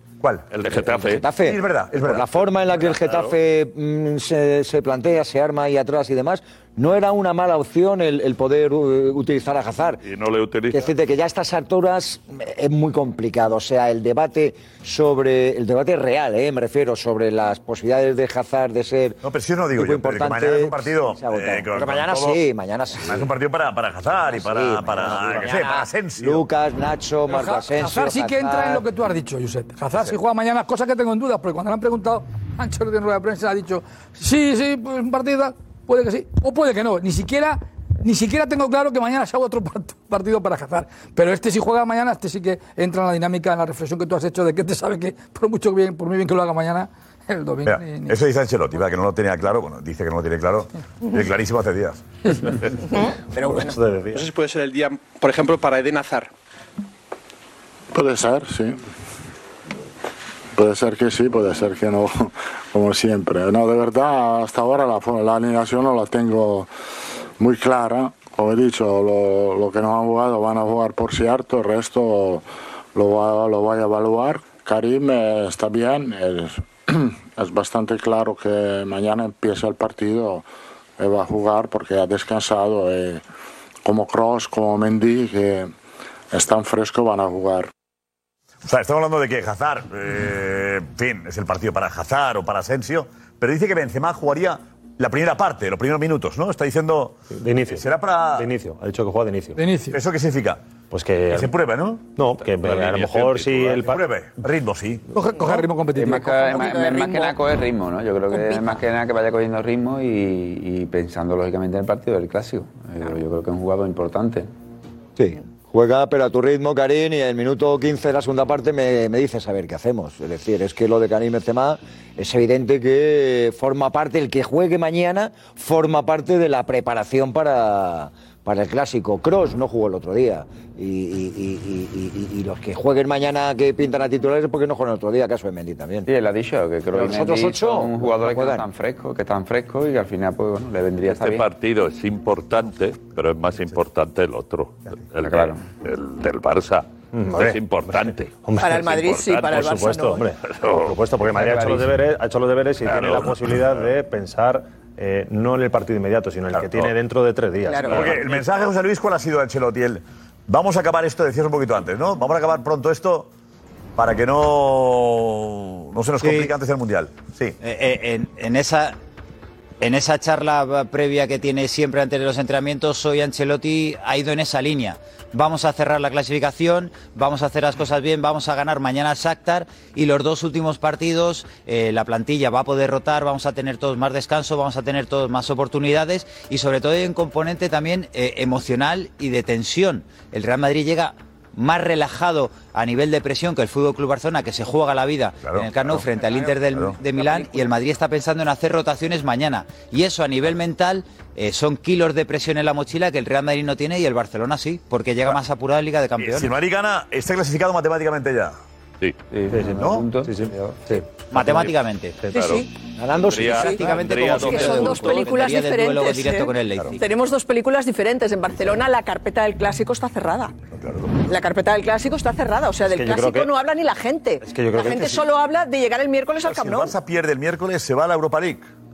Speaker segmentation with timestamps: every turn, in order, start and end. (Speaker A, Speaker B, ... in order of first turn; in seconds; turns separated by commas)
Speaker A: 0.2-0.5, Speaker B: 0.5-1.3, Speaker C: 0.7-10.0, Speaker A: 1.3-2.5, Speaker B: 2.6-3.3, Speaker B: 10.0-10.9, Speaker C: 10.7-19.2, Speaker A: 19.2-22.4, Speaker C: 19.7-23.3, Speaker A: 23.0-26.5, Speaker C: 24.1-28.8, Speaker D: 27.3-48.1, Speaker A: 47.6-52.0, Speaker E: 53.3-53.7, Speaker F: 53.4-54.2, Speaker G: 54.1-56.3, Speaker H: 57.9-58.8, Speaker H: 60.5-66.7, Speaker H: 67.4-80.5, Speaker H: 81.0-83.2, Speaker H: 83.8-85.7, Speaker H: 86.3-87.7, Speaker A: 88.6-97.2, Speaker F: 97.3-99.6, Speaker A: 97.7-98.5, Speaker D: 99.6-100.0, Speaker A: 99.9-100.6, Speaker F: 100.9-101.5, Speaker A: 101.3-102.0, Speaker F: 102.1-104.0, Speaker B: 102.6-103.9, Speaker A: 103.8-105.0, Speaker D: 105.1-106.2, Speaker I: 105.9-114.5, Speaker E: 106.1-107.3, Speaker E: 108.3-108.7, Speaker C: 115.2-136.1, Speaker I: 136.1-141.4, Speaker C: 136.9-138.6, Speaker B: 141.0-149.9, Speaker I: 145.2-145.6, Speaker F: 147.1-158.2, Speaker E: 148.6-150.3, Speaker B: 150.4-150.9, Speaker I: 151.4-151.8, Speaker B: 152.8-153.7, Speaker E: 157.7-158.1, Speaker A: 157.9-163.3, Speaker A: 163.9-167.6, Speaker J: 166.2-166.5, Speaker J: 167.6-168.9, Speaker J: 169.8-206.5, Speaker A: 195.4-196.0, Speaker A: 196.7-197.0, Speaker A: 206.2-208.6, Speaker I: 209.3-210.8, Speaker F: 209.5-211.7, Speaker A: 209.8-210.1, Speaker J: 211.3-212.2, Speaker B: 212.3-212.6, Speaker E: 212.3-212.7, Speaker C: 213.0-213.8, Speaker B: 213.2-215.3, Speaker E: 213.4-220.5, Speaker J: 213.6-217.0, Speaker A: 220.7-221.3, Speaker E: 221.3-226.9, Speaker F: 222.8-223.5, Speaker F: 224.4-225.2, Speaker A: 226.4-228.7